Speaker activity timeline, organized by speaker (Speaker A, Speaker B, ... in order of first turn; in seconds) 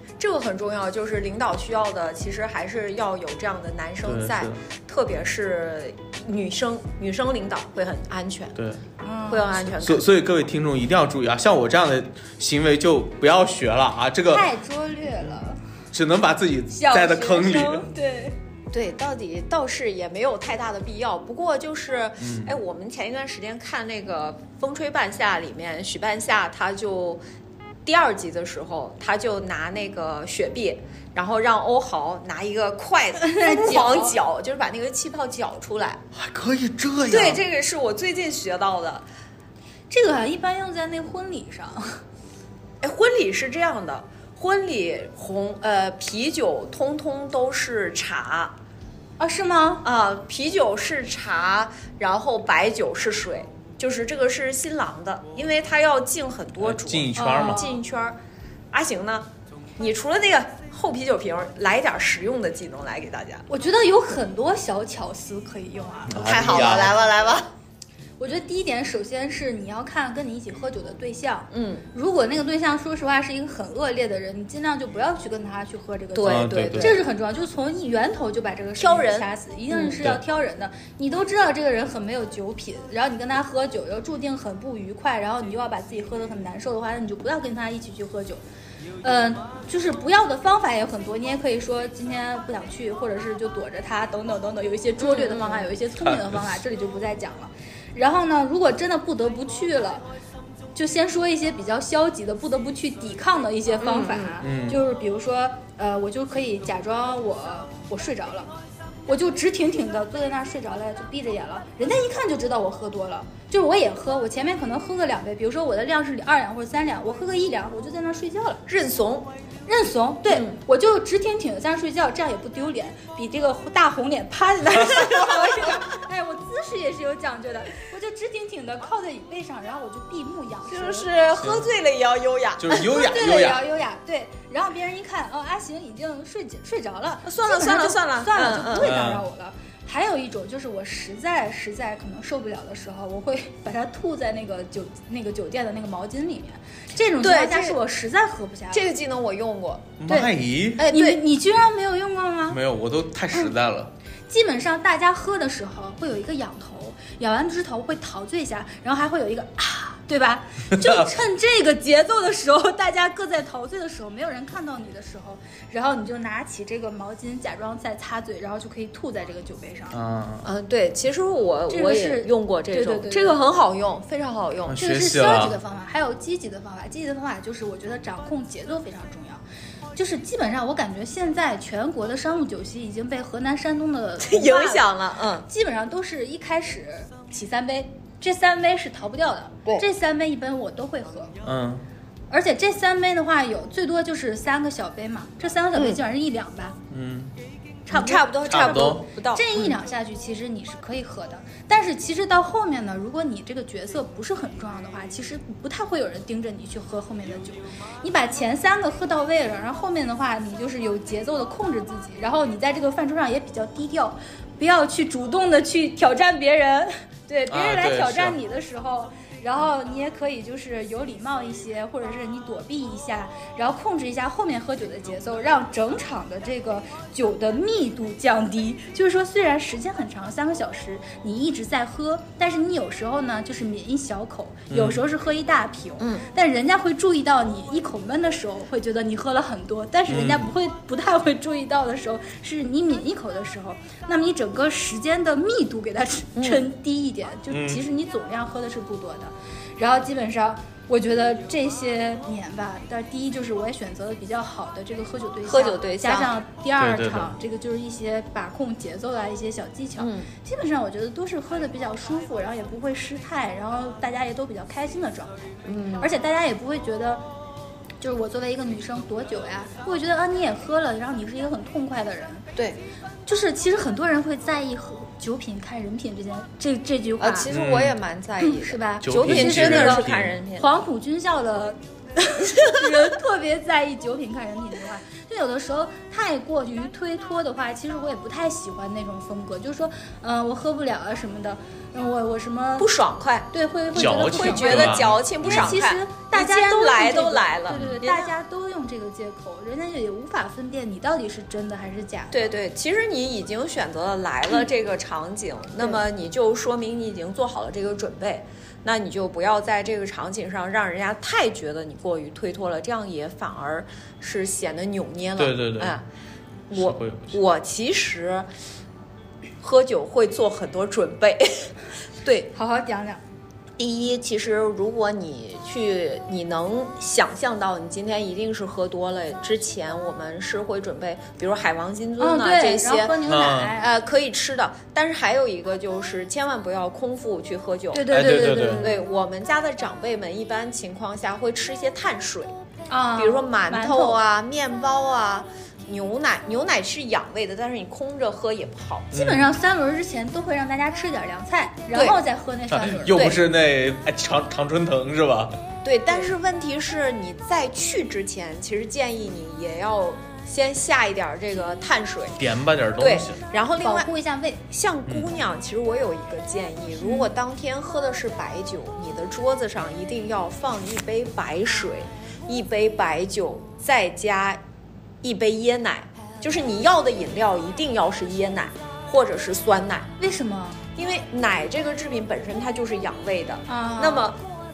Speaker A: 0.2-8.6, 9.3-10.1, 18.7-27.2, 27.9-36.0, 37.1-39.0, 42.8-48.6, 49.8-58.2, 58.7-63.5, 66.2-67.5, 71.5-71.8, 76.1-77.0, 78.8-80.0, 95.0-95.7, 103.8-104.3, 118.7-119.3, 120.3-120.6, 130.7-133.2, 137.3-138.9, 147.2-147.8, 148.7-149.9, 150.8-151.2, 170.4-174.8, 184.2-185.5, 197.9-199.7, 236.0-236.3, 246.4-246.6, 255.5-256.3, 260.0-260.3, 265.7-266.1, 277.2-280.7, 292.8-293.5, 294.2-298.3, 302.3-316.1, 316.7-318.5, 319.6-321.7, 322.2-322.5, 323.8-333.1, 333.8-338.0, 338.8-342.5, 343.2-349.1, 351.9-352.2, 355.8-362.4, 363.0-364.1, 364.7-374.6, 375.2-380.1, 381.0-384.4
Speaker B: 4.0-4.6, 8.6-8.8, 9.7-14.5, 15.9-17.9, 22.2-22.5, 36.1-37.4, 56.6-57.7, 66.1-67.0, 76.2-77.0, 80.0-80.2, 96.0-96.4, 104.4-104.8, 131.4-131.7, 132.6-133.6, 138.8-139.2, 150.0-150.8, 152.5-153.9, 160.7-161.1, 169.9-170.5, 174.7-175.6, 191.4-191.8, 196.9-197.3, 198.5-199.1, 217.5-218.4, 234.7-235.0, 240.1-240.5, 247.5-247.8, 256.8-257.3, 277.5-278.0, 279.0-280.4, 293.9-295.7, 297.7-298.0, 315.4-316.0, 316.7-317.4, 333.2-333.7, 338.1-338.9, 349.1-349.5, 352.7-355.6, 362.4-363.4
Speaker C: 9.0-9.6, 14.3-15.6, 16.7-18.4, 33.2-34.1, 39.9-42.0, 49.2-49.9, 57.2-57.8, 63.5-66.4, 68.2-88.4, 89.0-100.1, 100.8-108.5, 109.1-118.6, 119.7-131.1, 132.9-148.8, 150.8-152.6, 154.3-170.0, 171.7-173.4, 174.8-179.4, 179.9-184.9, 185.5-191.3, 192.3-196.8, 197.9-265.4, 266.0-267.2, 268.0-272.5, 273.3-277.5, 278.4-292.9, 293.5-302.5, 322.5-323.2, 332.2-333.9, 337.9-339.1, 342.9-344.2, 349.1-353.4, 363.8-364.6, 367.0-367.3, 380.2-380.8, 383.7-384.3